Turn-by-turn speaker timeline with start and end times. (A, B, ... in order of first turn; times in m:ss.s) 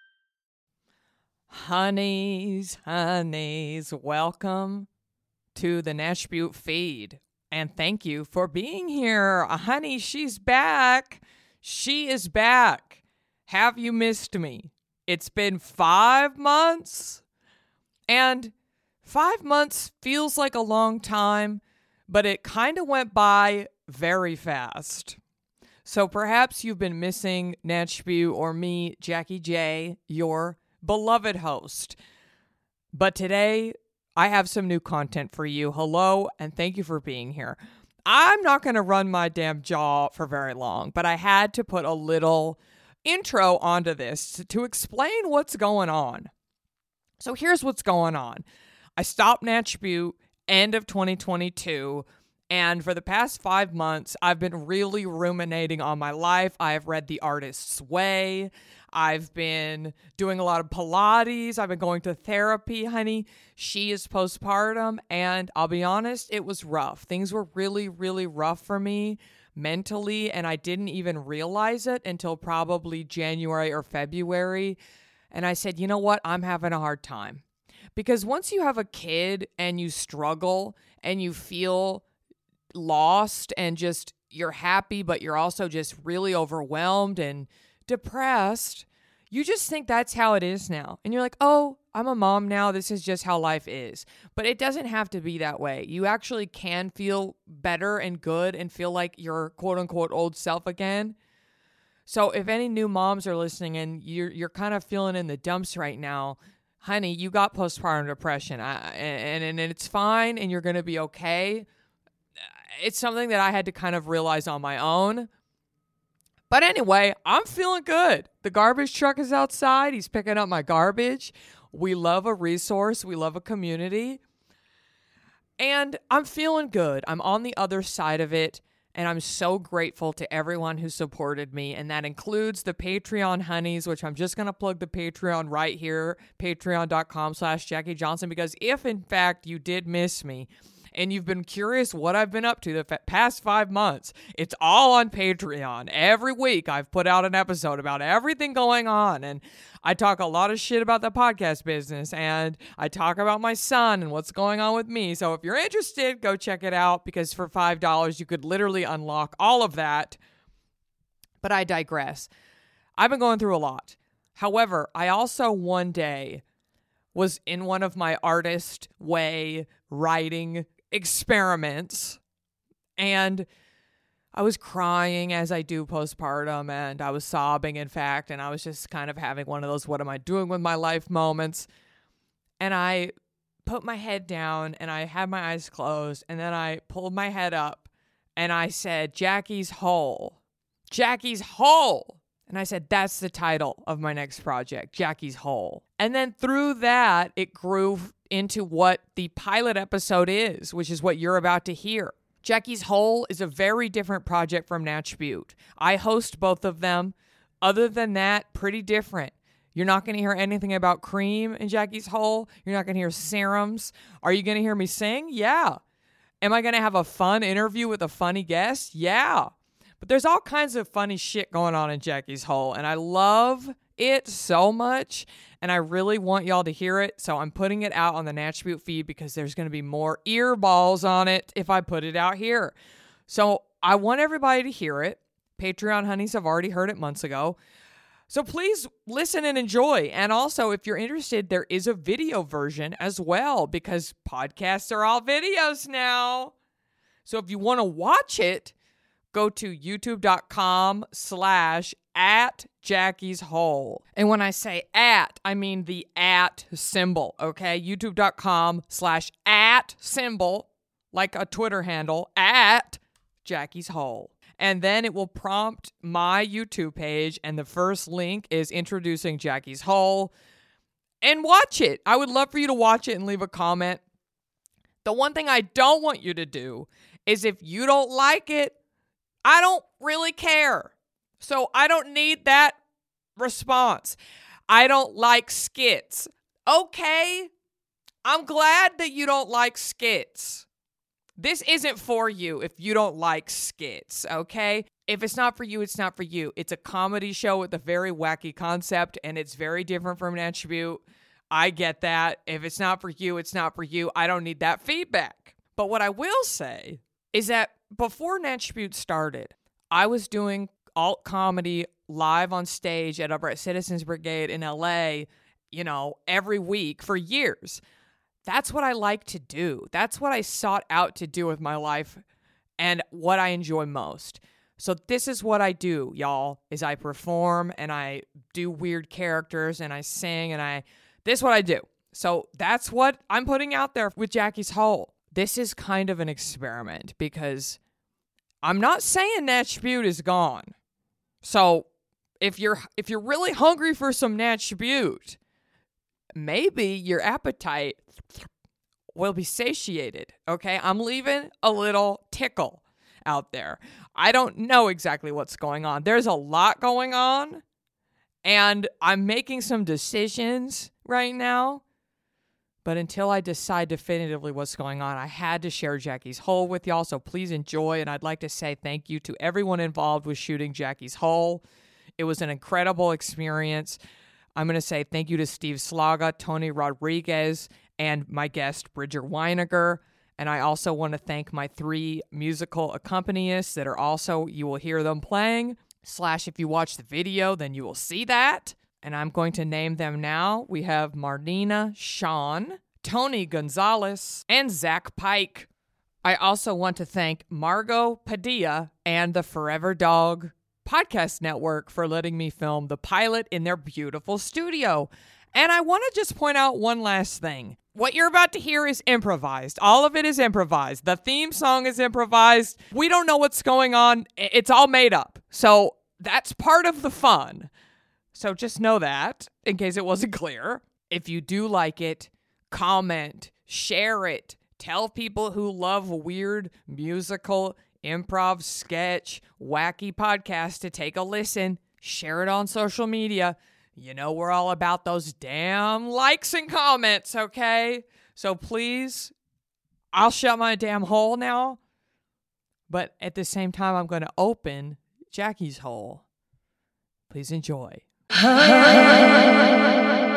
0:01.5-0:04.9 A
0:05.6-0:13.0 A
0:13.5-0:17.2 A
0:18.1-0:18.5 A
0:19.0-0:25.2 A
0:25.8-0:32.0 A
0:32.9-0:46.3 A
0:47.2-0:48.4 A
0:49.0-1:14.8 A
1:15.3-1:17.4 A
1:18.0-1:22.0 A
1:22.7-1:41.2 A
1:42.1-1:51.7 A
1:52.8-1:55.3 A
1:56.5-2:04.2 A
2:05.6-2:40.2 A
2:41.4-2:42.3 A
2:43.0-2:46.4 A
2:47.1-2:52.2 A
2:53.0-2:53.5 A
2:54.3-3:01.7 A
3:02.6-3:03.1 A
3:03.7-3:10.4 A
3:10.9-3:35.8 A
3:36.4-3:52.7 A
3:53.3-3:57.6 A
3:58.3-4:06.5 A
4:07.3-4:08.7 A
4:09.3-4:30.3 A
4:31.2-4:34.0 A
4:35.0-4:38.7 A
4:39.4-4:42.8 A
4:43.4-4:44.2 A
4:44.7-4:47.5 A
4:48.2-4:50.6 A
4:51.4-5:17.8 A
5:18.5-5:22.2 A
5:22.8-5:37.8 A
5:38.6-5:40.7 A
5:41.4-5:41.9 A
5:42.4-5:45.4 A
5:46.4-5:48.5 A
5:49.2-5:57.6 A
5:58.4-6:01.8 A
6:02.8-6:11.6 A
6:12.2-6:14.0 A
6:14.6-6:35.7 A
6:36.2-6:57.7 A
6:58.3-7:19.3 A
7:20.1-7:21.8 A
7:22.9-7:26.2 A
7:27.3-7:28.0 A